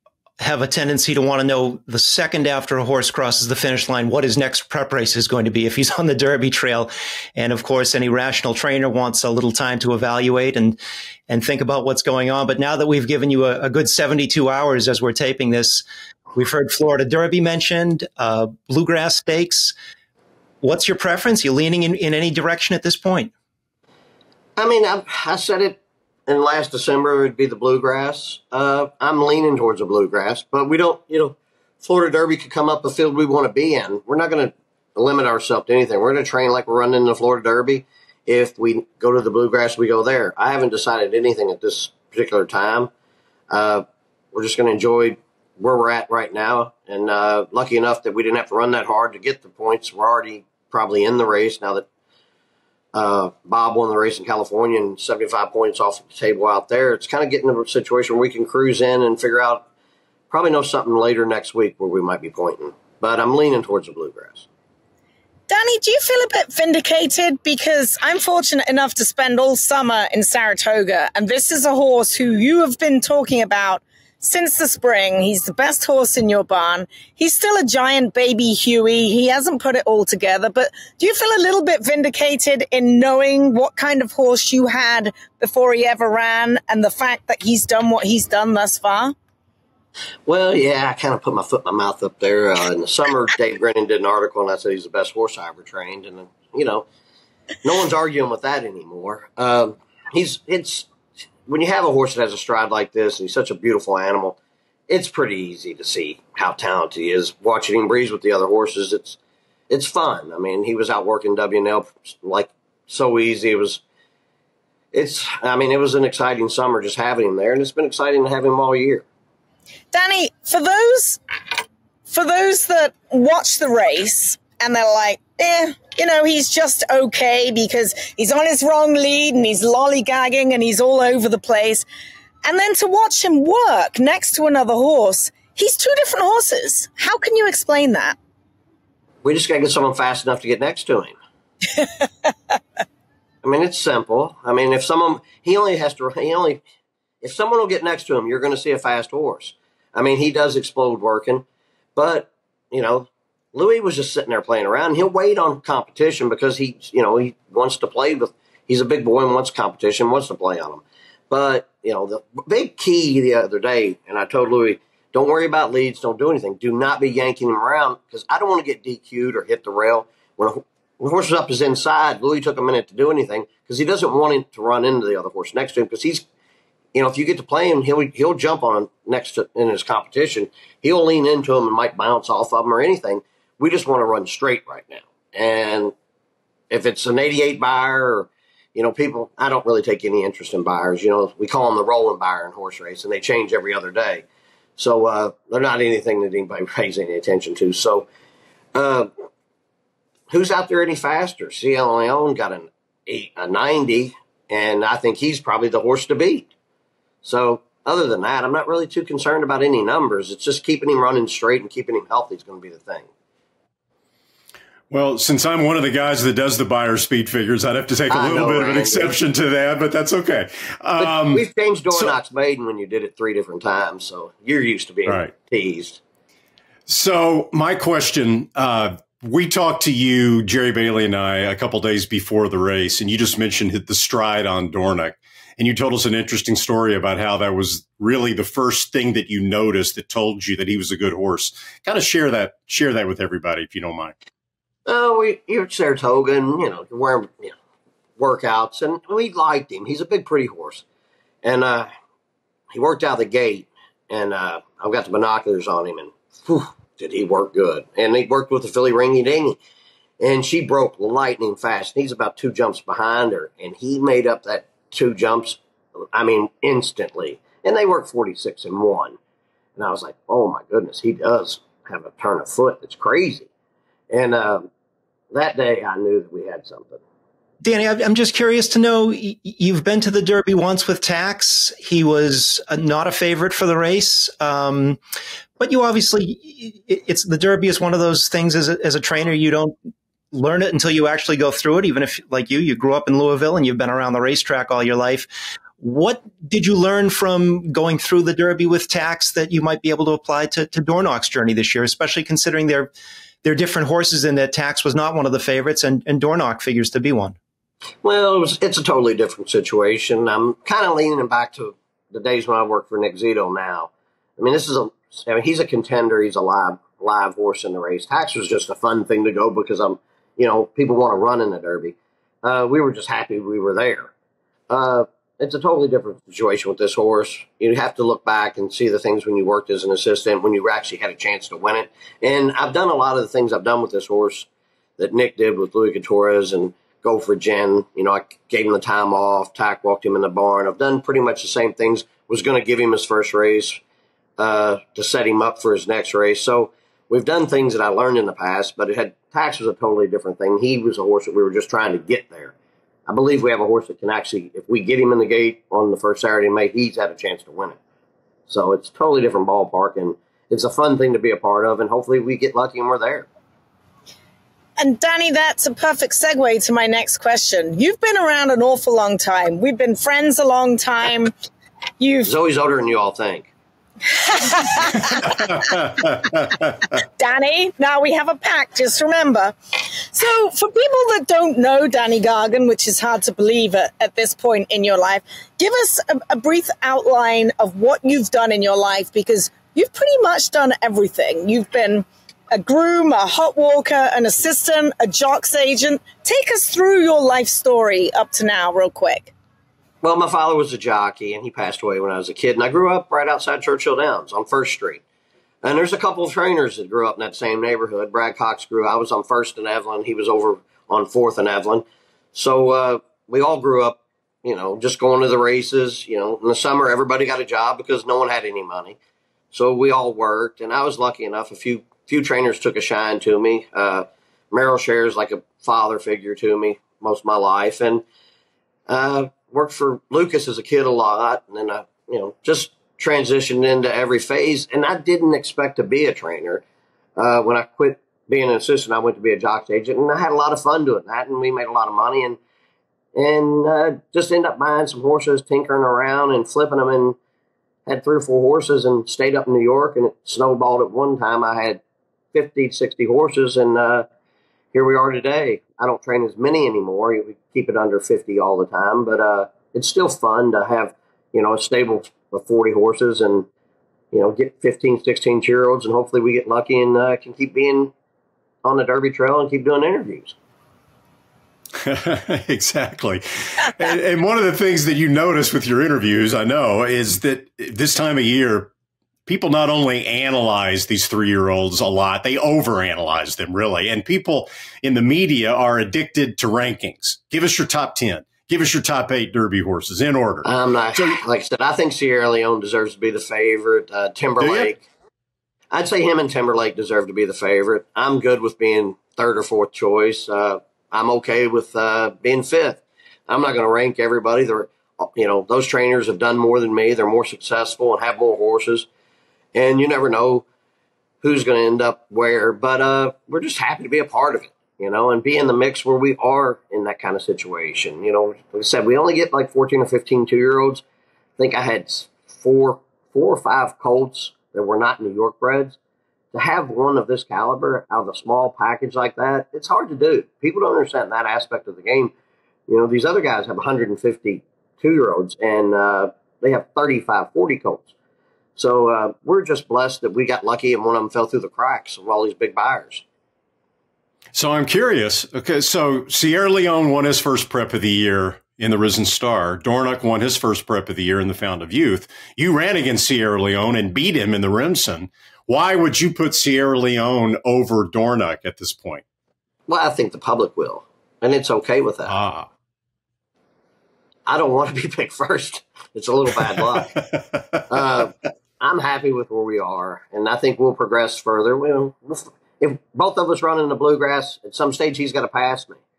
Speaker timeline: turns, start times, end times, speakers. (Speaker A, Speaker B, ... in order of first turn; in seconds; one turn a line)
Speaker A: 0.4-19.7
Speaker A: 20.6-23.3
Speaker B: 24.6-42.9
Speaker B: 43.5-51.9
Speaker B: 52.9-59.6
Speaker B: 60.3-64.5
Speaker C: 65.5-89.1
Speaker B: 90.2-96.8
Speaker B: 97.6-100.9
Speaker B: 101.5-104.4
Speaker B: 104.9-109.2
Speaker B: 109.7-113.8
Speaker B: 114.9-119.0
Speaker C: 119.9-121.2
Speaker C: 122.1-131.8
Speaker C: 132.4-138.2
Speaker B: 139.2-141.1
Speaker B: 143.4-146.6
Speaker B: 147.2-151.4
Speaker B: 151.9-176.2
Speaker B: 176.9-185.9
Speaker B: 186.7-194.2
Speaker B: 194.8-198.1
Speaker B: 198.7-199.1
Speaker B: 200.3-206.5
Speaker B: 207.2-213.1
Speaker D: 214.9-222.1
Speaker B: 218.1-219.2
Speaker B: 221.0-226.0
Speaker D: 225.1-225.3
Speaker D: 226.9-244.1
Speaker B: 244.8-247.5
Speaker B: 248.2-250.8
Speaker B: 251.4-251.9
Speaker B: 252.7-259.6
Speaker B: 260.2-265.6
Speaker B: 266.1-269.1
Speaker B: 269.8-273.5
Speaker B: 274.1-274.7
Speaker B: 275.3-277.0
Speaker A: 277.6-285.0
Speaker A: 285.6-289.8
Speaker A: 290.3-302.9
Speaker A: 303.4-307.4
Speaker B: 308.0-324.1
Speaker B: 324.7-334.5
Speaker B: 335.0-343.8
Speaker B: 344.4-352.5
Speaker B: 353.1-357.8
Speaker B: 358.5-363.3
Speaker C: 364.8-371.3
Speaker C: 372.0-372.3
Speaker B: 372.2-373.5
Speaker C: 374.2-375.4
Speaker D: 375.6-376.5
Speaker C: 377.2-379.5
Speaker C: 380.1-399.3
Speaker B: 400.0-405.0
Speaker B: 405.6-419.0
Speaker B: 419.5-428.0
Speaker B: 428.9-436.6
Speaker B: 437.2-442.4
Speaker B: 443.1-447.1
Speaker B: 447.9-451.8
Speaker B: 452.3-454.1
Speaker B: 454.7-463.5
Speaker B: 464.1-467.9
Speaker B: 468.6-470.3
Speaker D: 471.8-478.7
Speaker D: 479.3-491.2
Speaker B: 490.4-494.8
Speaker D: 494.4-494.7
Speaker B: 495.7-508.9
Speaker B: 509.5-510.4
Speaker B: 511.2-520.8
Speaker B: 521.4-525.8
Speaker B: 526.3-532.1
Speaker B: 532.7-537.9
Speaker B: 538.5-543.0
Speaker D: 544.3-559.0
Speaker B: 559.7-562.1
Speaker D: 562.1-562.5
Speaker B: 564.3-566.9
Speaker D: 566.3-568.0
Speaker B: 567.7-575.8